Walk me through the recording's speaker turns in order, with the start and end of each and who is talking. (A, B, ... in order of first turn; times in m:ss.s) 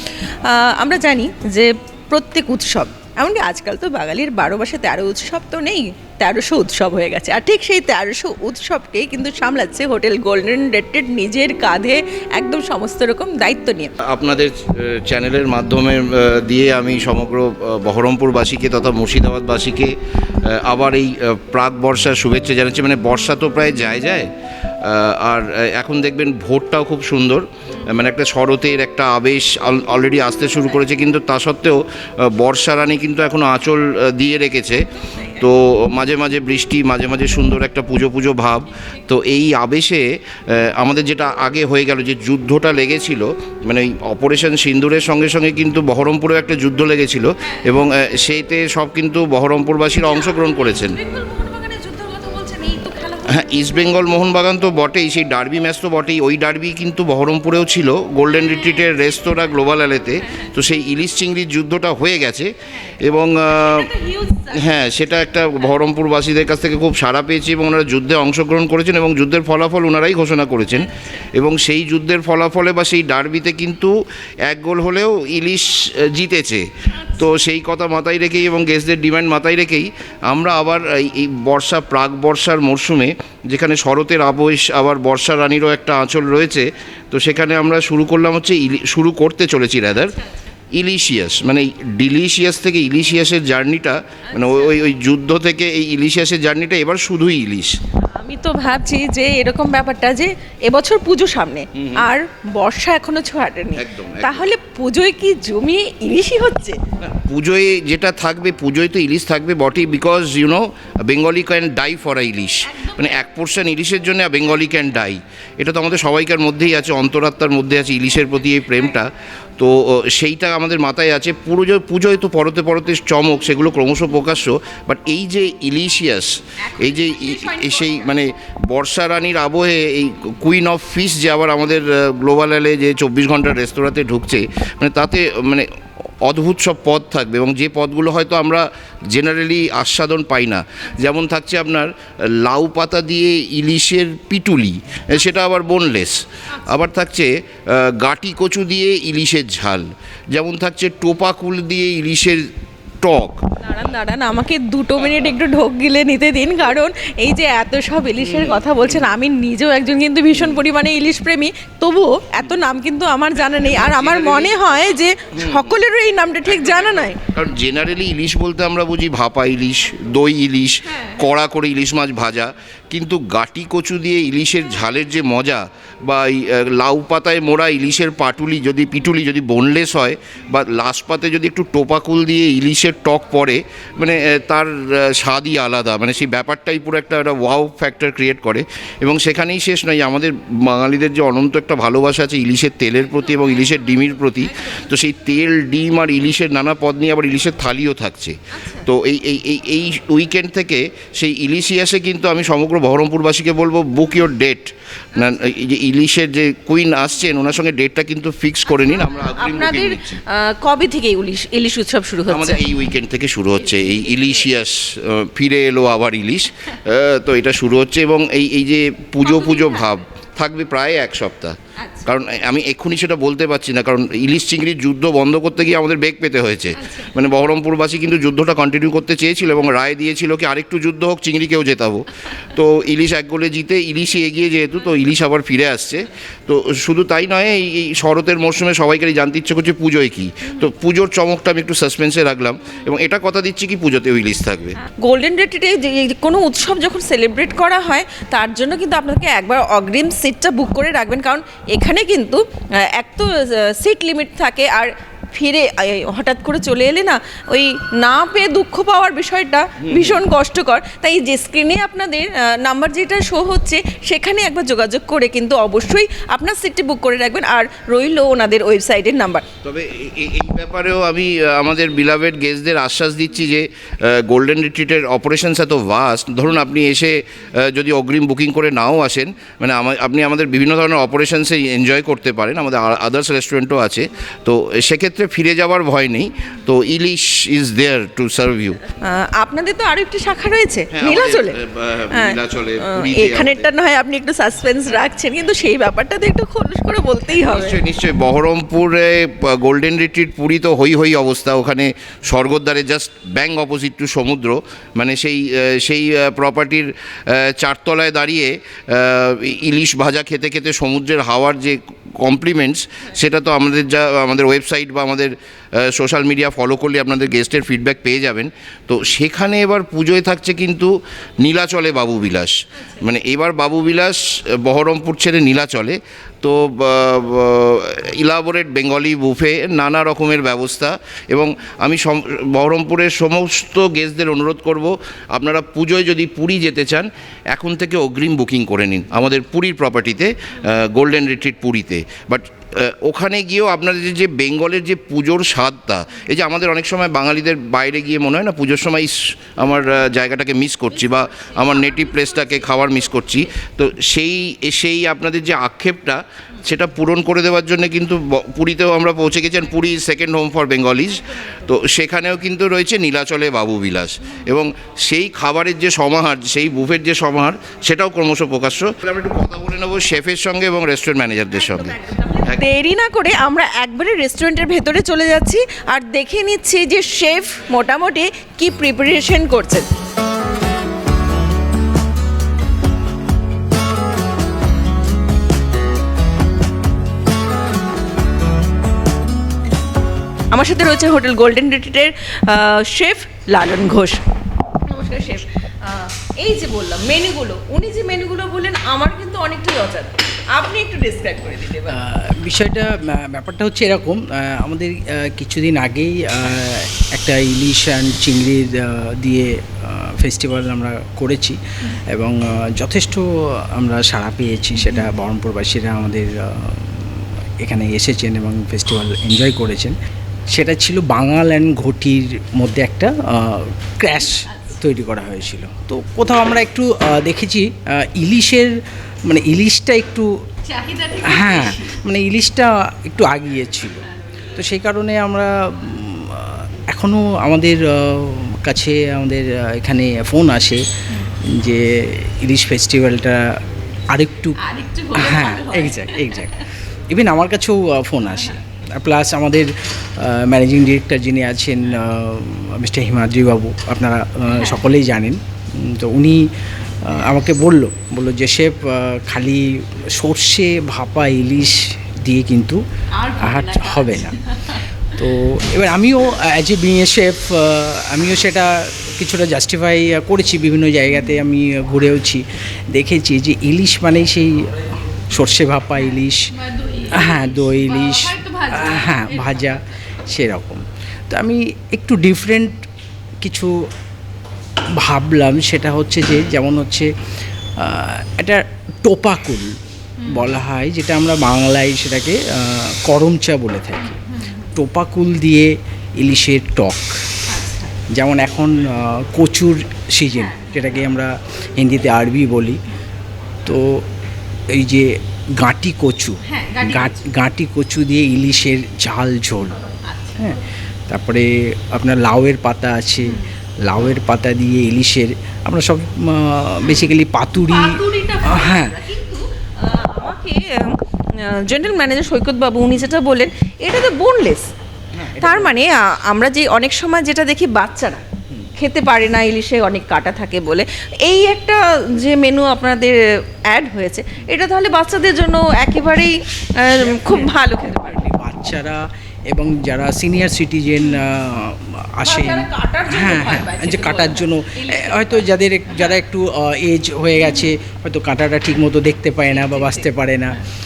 0:00.4-0:13.9 A
0:14.1-0:24.3 B
0:24.8-0:51.0 B
0:35.1-0:35.4 A
0:47.4-0:47.8 A
0:50.0-0:53.7 A
0:53.3-1:03.9 B
0:58.3-0:59.0 A
1:00.2-1:00.5 A
1:03.6-1:04.8 A
1:04.5-1:13.9 B
1:10.9-1:11.2 A
1:14.5-1:30.1 B
1:16.9-1:17.2 A
1:30.1-1:30.5 A
1:30.7-1:37.8 B
1:34.3-1:34.9 A
1:38.1-1:46.8 A
1:41.8-1:42.1 B
1:43.8-1:44.5 B
1:47.0-2:15.7 B
1:52.7-1:53.2 A
2:06.6-2:08.2 A
2:16.2-2:32.5 B
2:33.0-2:33.4 B
2:33.6-2:47.2 A
2:38.2-2:39.0 B
2:43.5-2:44.7 B
2:45.3-2:45.7 B
2:46.4-3:30.2 B
3:14.4-3:14.7 A
3:18.6-3:18.9 A
3:28.9-3:32.6 A
3:32.3-4:04.8 B
3:33.7-3:34.4 A
3:39.2-3:39.9 A
3:41.8-3:42.1 A
3:46.8-3:47.1 A
4:04.8-4:12.4 A
4:12.9-4:29.4 A
4:19.8-4:20.2 B
4:29.6-4:48.8 B
4:49.0-4:51.6 A
4:50.9-4:53.7 B
4:52.1-4:57.8 A
4:57.4-6:12.6 B
5:51.3-5:52.9 A
6:11.6-6:19.9 A
6:30.5-6:34.2 A
6:34.9-6:42.0 A
6:41.9-6:51.6 C
6:52.1-6:53.2 C
6:53.7-7:00.0 C
6:54.8-6:55.1 A
7:00.5-7:08.8 C
7:09.3-7:10.3 C
7:10.6-7:12.0 A
7:11.2-7:14.0 C
7:14.6-7:20.8 C
7:21.6-7:23.5 C
7:24.1-7:24.6 C
7:24.6-7:26.6 A
7:25.2-7:26.6 C
7:27.1-7:36.5 C
7:34.5-7:34.9 A
7:37.0-7:42.8 C
7:43.2-7:44.8 A
7:43.4-7:44.4 C
7:45.2-7:56.4 C
7:51.1-7:51.4 A
7:56.7-7:59.6 A
7:57.1-8:02.9 C
8:03.4-8:03.8 C
8:05.0-8:07.1 C
8:07.8-8:09.7 C
8:10.2-8:10.6 A
8:10.3-8:17.1 C
8:17.5-8:17.9 A
8:18.2-8:22.8 C
8:20.4-8:20.9 A
8:23.6-8:24.0 C
8:24.7-8:29.8 C
8:26.4-8:27.2 A
8:29.9-8:30.5 A
8:30.4-8:39.0 C
8:36.8-8:44.6 A
8:45.2-8:45.8 C
8:45.4-8:48.2 A
8:48.8-8:53.2 A
8:53.7-8:58.3 A
8:56.9-9:10.6 C
9:02.2-9:06.1 A
9:07.4-9:07.7 A
9:09.5-9:10.1 A